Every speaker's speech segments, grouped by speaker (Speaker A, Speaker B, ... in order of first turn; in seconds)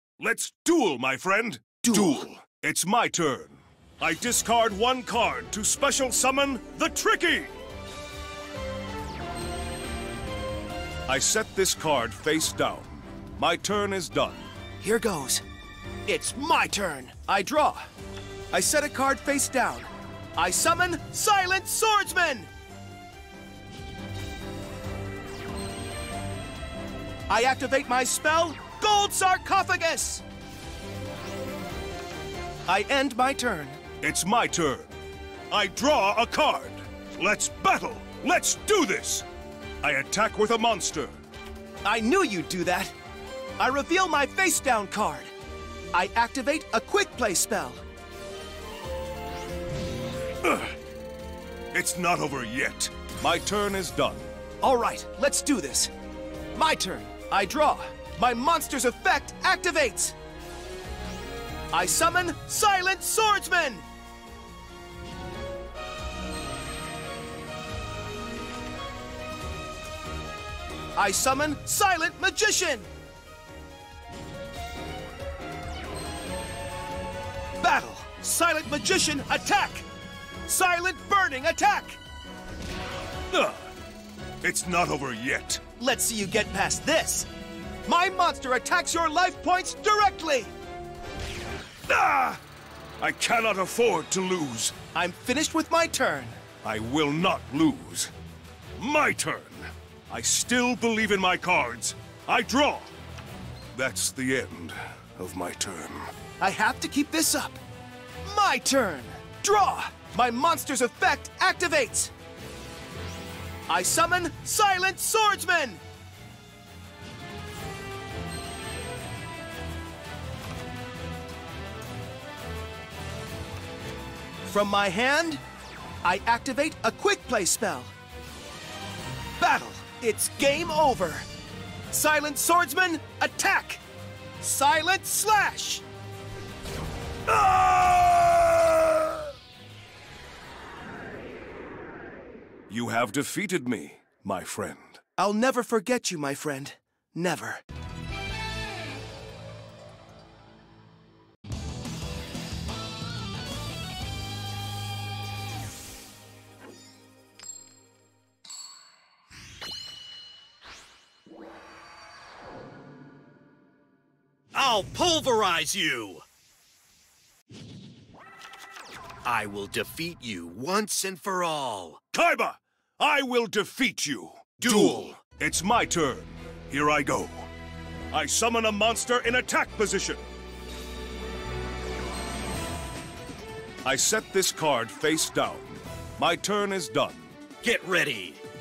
Speaker A: 0.2-7.5, 11.1-14.5, 34.0-34.9, 35.5-39.3, 39.8-41.1, 50.4-50.7, 51.7-54.3, 83.3-83.7, 84.4-85.6, 91.9-92.4, 93.0-94.8, 96.6-98.1, 98.8-102.9, 103.8-106.1, 137.3-138.5, 142.7-145.0, 172.1-177.5, 178.1-180.2, 183.8-187.3
Speaker B: 1.8-2.3, 14.8-15.4, 16.1-17.9, 18.5-22.5, 27.3-30.2, 32.7-33.8, 41.8-42.9, 43.6-45.3, 45.9-47.8, 54.6-55.9, 56.5-60.2, 61.7-63.9, 71.0-72.9, 77.6-79.9, 80.5-82.0, 85.8-87.3, 87.9-90.5, 94.9-96.4, 106.4-107.6, 108.2-112.1, 113.7-115.8, 124.5-125.4, 126.0-127.9, 129.4-131.3, 131.9-133.8, 134.4-135.8, 145.2-147.6
Speaker C: 164.5-166.2, 169.2-172.0, 174.6-175.2, 187.6-188.4